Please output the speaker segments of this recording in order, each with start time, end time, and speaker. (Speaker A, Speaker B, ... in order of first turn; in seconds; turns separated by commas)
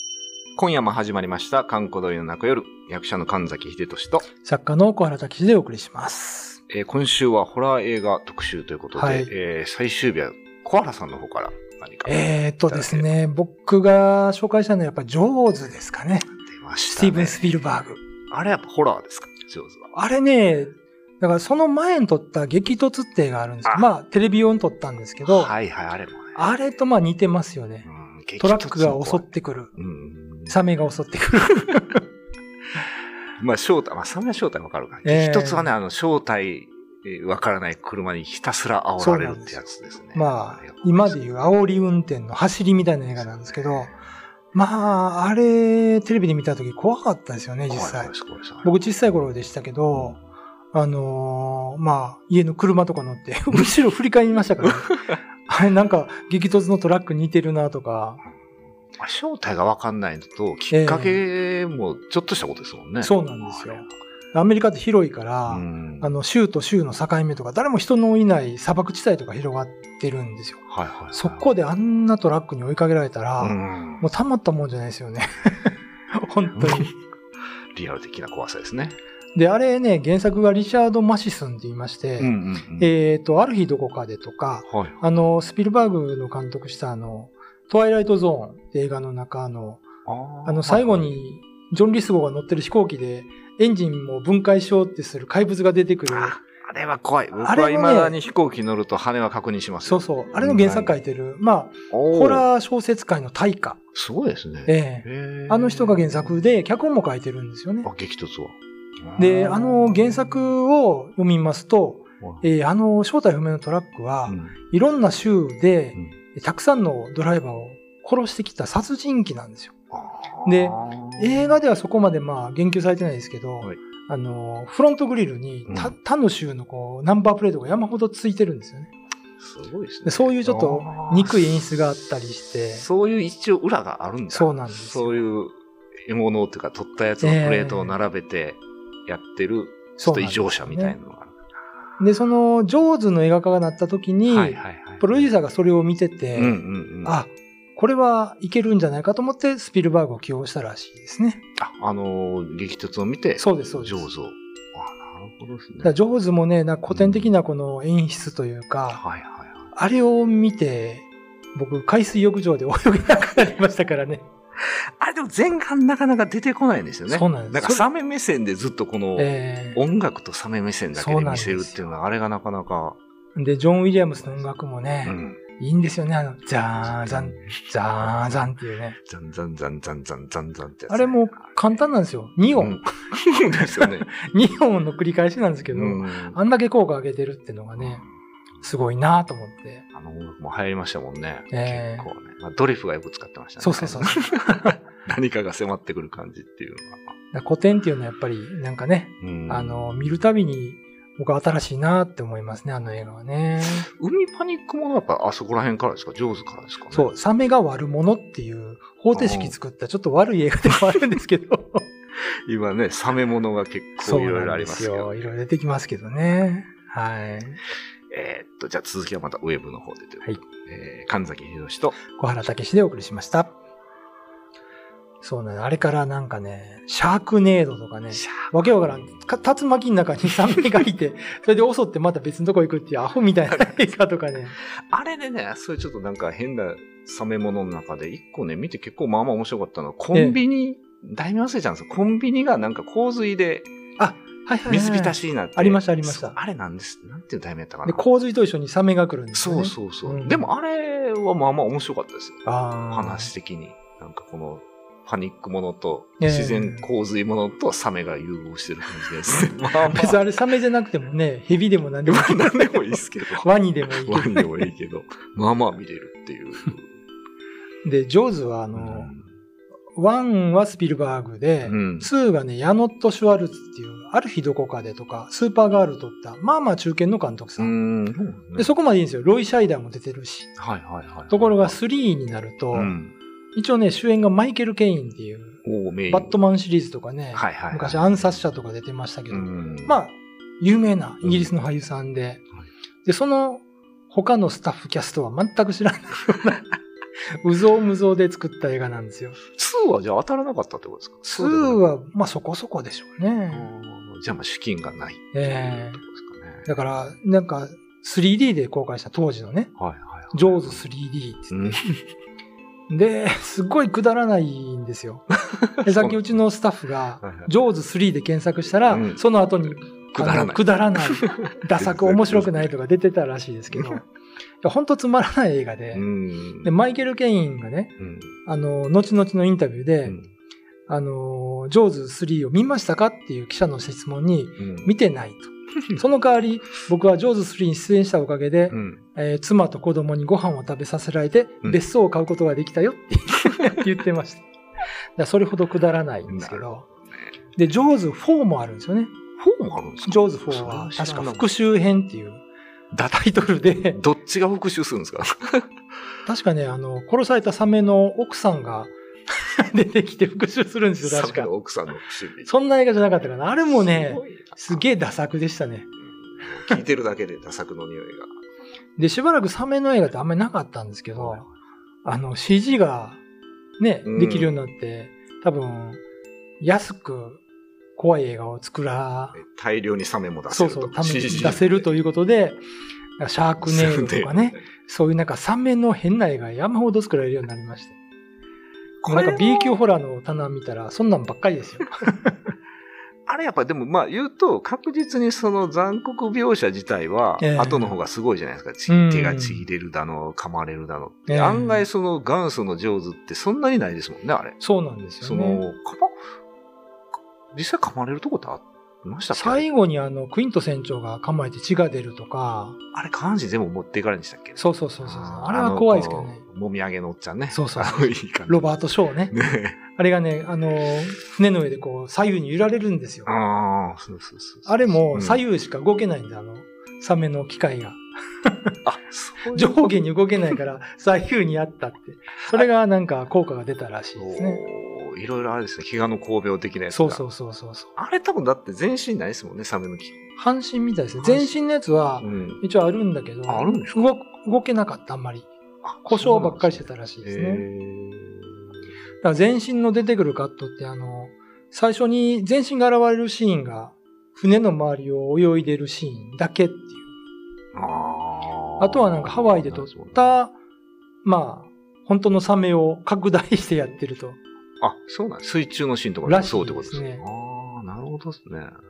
Speaker A: 0.6-4.2, Speaker B: 4.4-6.6, Speaker A: 6.7-13.1, Speaker B: 8.9-9.3, Speaker B: 12.0-16.3, Speaker A: 16.4-17.4, Speaker B: 16.9-18.0, Speaker A: 18.1-19.9, Speaker B: 19.9-25.5, Speaker A: 25.2-26.4, Speaker B: 26.3-27.9, Speaker A: 27.8-30.6, Speaker B: 28.4-29.7, Speaker B: 30.5-32.0, Speaker A: 33.4-41.2, Speaker B: 35.0-35.7, Speaker B: 39.0-39.6, Speaker B: 40.1-43.9, Speaker A: 43.2-43.6, Speaker B: 44.5-48.1, Speaker A: 47.7-48.7, Speaker B: 48.6-50.2, Speaker A: 49.9-50.2, Speaker B: 50.7-58.2, Speaker A: 54.6-55.0, Speaker A: 59.0-63.9, Speaker B: 60.7-61.2, Speaker B: 63.0-76.9, Speaker A: 65.5-66.1, Speaker A: 70.7-71.5, Speaker A: 73.4-74.1, Speaker A: 76.5-76.9, Speaker A: 77.7-79.0, Speaker B: 79.3-89.8, Speaker A: 82.2-82.9, Speaker A: 84.7-85.0, Speaker A: 90.0-91.1, Speaker B: 90.4-96.4, Speaker A: 96.1-101.0, Speaker B: 97.4-98.2, Speaker B: 99.8-103.8, Speaker A: 101.9-102.5, Speaker A: 103.9-106.3, Speaker B: 104.7-107.9, Speaker A: 107.8-110.5, Speaker B: 109.2-119.7, Speaker A: 112.2-112.5, Speaker A: 114.3-114.5, Speaker A: 119.9-121.6, Speaker B: 120.4-128.9, Speaker A: 125.7-125.9, Speaker A: 129.4-131.5, Speaker B: 130.0-132.8, Speaker A: 132.7-135.5, Speaker B: 134.3-135.3, Speaker A: 136.1-141.4, Speaker B: 137.2-137.9, Speaker B: 140.0-141.0, Speaker B: 142.0-151.4, Speaker A: 144.3-145.3, Speaker A: 146.3-147.1, Speaker A: 151.6-155.9, Speaker B: 153.4-154.1, Speaker B: 155.8-159.0, Speaker A: 156.9-157.3, Speaker A: 158.9-159.7, Speaker B: 159.7-164.3, Speaker A: 164.6-173.0, Speaker B: 167.1-167.9, Speaker B: 169.2-169.8, Speaker B: 170.9-171.8, Speaker B: 173.3-179.0, Speaker A: 175.0-175.4, Speaker A: 176.8-181.6, Speaker B: 180.9-182.8, Speaker A: 182.5-184.1, Speaker B: 183.7-188.0, Speaker A: 185.7-186.4, Speaker A: 187.8-188.0, Speaker B: 188.6-189.8, Speaker A: 189.9-197.1, Speaker B: 191.5-192.1, Speaker B: 193.6-194.8, Speaker B: 197.3-203.9, Speaker A: 199.2-200.1, Speaker A: 203.6-207.1, Speaker B: 206.9-211.8, Speaker A: 209.1-209.6, Speaker A: 212.4-215.2, Speaker B: 214.0-217.6, Speaker A: 218.1-222.0, Speaker B: 222.1-223.5, Speaker B: 225.2-234.6, Speaker A: 228.1-229.1, Speaker A: 233.5-233.8, Speaker A: 234.6-243.7, Speaker B: 240.1-240.4, Speaker B: 244.0-246.3, Speaker A: 244.7-248.0, Speaker B: 247.8-250.5, Speaker A: 249.3-260.2, Speaker B: 252.4-253.3, Speaker B: 256.2-256.8, Speaker B: 259.8-264.6, Speaker A: 262.1-266.9, Speaker B: 267.8-269.1, Speaker A: 268.8-269.3, Speaker B: 269.9-277.7, Speaker A: 271.6-272.1, Speaker A: 277.6-278.7, Speaker B: 278.6-280.6, Speaker A: 280.6-281.7, Speaker B: 281.3-282.9, Speaker A: 282.7-283.1, Speaker B: 283.5-292.4, Speaker A: 285.6-286.4, Speaker A: 287.3-288.0, Speaker A: 289.3-290.0, Speaker A: 291.2-291.5, Speaker B: 293.0-296.7, Speaker B: 297.4-299.4, Speaker A: 299.6-301.8, Speaker B: 301.2-303.7, Speaker A: 303.5-306.7, Speaker B: 305.3-306.0, Speaker B: 306.6-309.7, Speaker A: 309.8-310.8, Speaker B: 310.3-311.8, Speaker A: 311.5-311.8, Speaker B: 312.9-315.2, Speaker A: 315.3-316.4, Speaker B: 315.8-324.0, Speaker A: 317.2-317.5, Speaker A: 318.9-319.3, Speaker A: 320.1-322.7, Speaker A: 323.7-324.0, Speaker B: 324.6-326.0, Speaker A: 325.9-326.7, Speaker B: 326.6-327.9, Speaker A: 328.0-328.3, Speaker B: 328.4-330.1, Speaker B: 330.9-344.4, Speaker A: 334.6-334.9, Speaker A: 338.7-339.0, Speaker B: 345.1-346.9, Speaker A: 346.3-347.3, Speaker B: 347.6-349.1, Speaker A: 349.4-351.5, Speaker B: 350.0-352.4, Speaker B: 353.0-354.0, Speaker A: 353.9-355.7, Speaker B: 356.2-361.5, Speaker A: 361.0-362.5, Speaker B: 362.4-365.9, Speaker A: 363.7-364.8, Speaker A: 366.1-368.3, Speaker B: 369.0-371.4, Speaker A: 371.1-371.5, Speaker B: 372.0-373.2, Speaker B: 373.8-376.0, Speaker A: 374.0-374.6, Speaker B: 376.6-377.4, Speaker B: 377.9-379.4, Speaker A: 379.3-381.9, Speaker B: 380.5-382.6, Speaker B: 383.2-387.9, Speaker A: 383.6-384.6, Speaker A: 389.0-389.8, Speaker B: 389.0-392.5, Speaker A: 393.2-404.6, Speaker B: 397.4-398.0, Speaker B: 398.9-399.6, Speaker B: 401.3-401.8, Speaker B: 404.6-405.6, Speaker A: 405.2-406.1, Speaker A: 407.5-409.6, Speaker B: 409.3-412.8, Speaker A: 412.9-418.7, Speaker B: 414.6-416.4, Speaker B: 417.5-419.4, Speaker A: 419.3-419.8, Speaker B: 419.9-423.3, Speaker A: 423.2-425.4, Speaker B: 424.6-428.6, Speaker A: 428.8-430.0, Speaker B: 429.5-434.6, Speaker A: 434.1-437.2, Speaker B: 436.9-437.9, Speaker A: 437.9-440.2, Speaker B: 440.4-445.5, Speaker A: 441.2-441.6, Speaker A: 442.2-442.6, Speaker A: 443.5-444.1, Speaker A: 445.8-448.6, Speaker B: 446.0-447.6, Speaker B: 449.2-457.1, Speaker A: 457.7-460.4, Speaker B: 458.8-460.5, Speaker B: 461.2-464.4, Speaker A: 464.8-468.7, Speaker B: 466.2-467.2